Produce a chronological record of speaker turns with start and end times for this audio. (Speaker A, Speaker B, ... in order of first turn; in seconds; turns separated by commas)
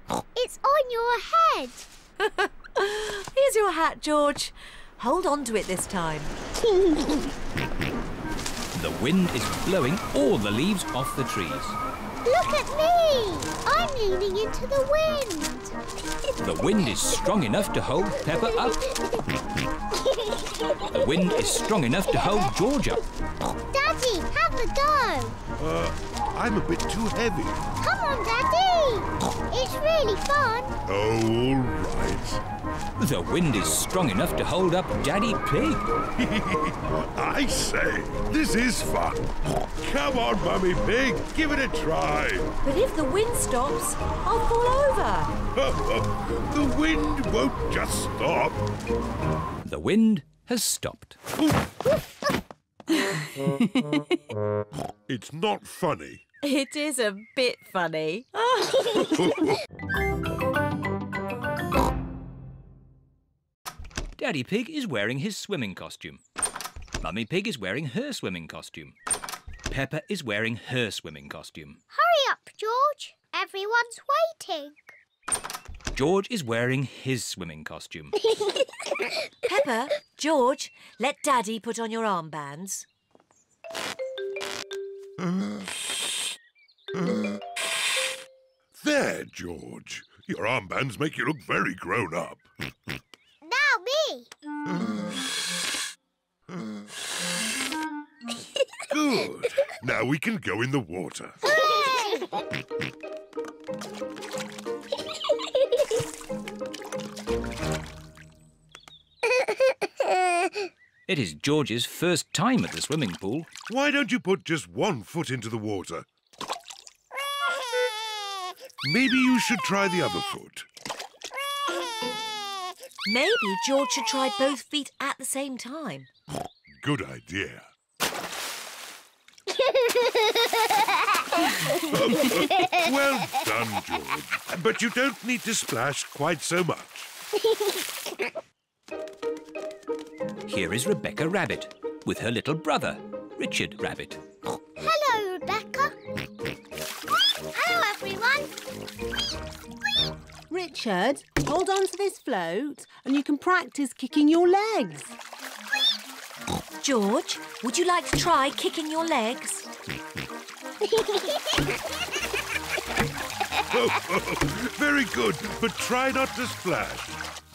Speaker A: 0.3-1.9, Speaker B: 2.2-6.3, Speaker C: 8.7-11.8, Speaker A: 12.2-15.7, Speaker C: 16.4-18.8, Speaker C: 20.9-23.0, Speaker A: 23.7-25.4, Speaker D: 25.6-27.6, Speaker A: 27.8-30.8, Speaker D: 30.9-32.4, Speaker C: 33.0-35.9, Speaker D: 36.2-42.5, Speaker B: 42.6-45.3, Speaker D: 45.5-48.6, Speaker C: 49.6-51.2, Speaker B: 53.0-54.1, Speaker D: 55.1-56.2, Speaker B: 56.4-59.1, Speaker C: 64.2-66.2, Speaker C: 67.0-68.9, Speaker C: 69.7-71.8, Speaker A: 71.9-74.9, Speaker C: 75.9-78.1, Speaker A: 78.2-79.1, Speaker B: 79.4-82.8, Speaker D: 88.8-92.4, Speaker A: 93.4-94.3, Speaker D: 98.9-101.4, Speaker A: 101.5-102.3, Speaker A: 109.3-110.7, Speaker C: 111.1-113.5, Speaker D: 113.7-116.1, Speaker D: 118.8-120.7, Speaker B: 123.0-126.1, Speaker D: 126.8-127.7, Speaker D: 131.8-137.1, Speaker C: 140.5-144.2, Speaker A: 144.8-145.9, Speaker A: 147.5-148.5, Speaker E: 150.5-155.1, Speaker B: 156.8-159.7, Speaker A: 160.8-161.8, Speaker D: 163.7-167.2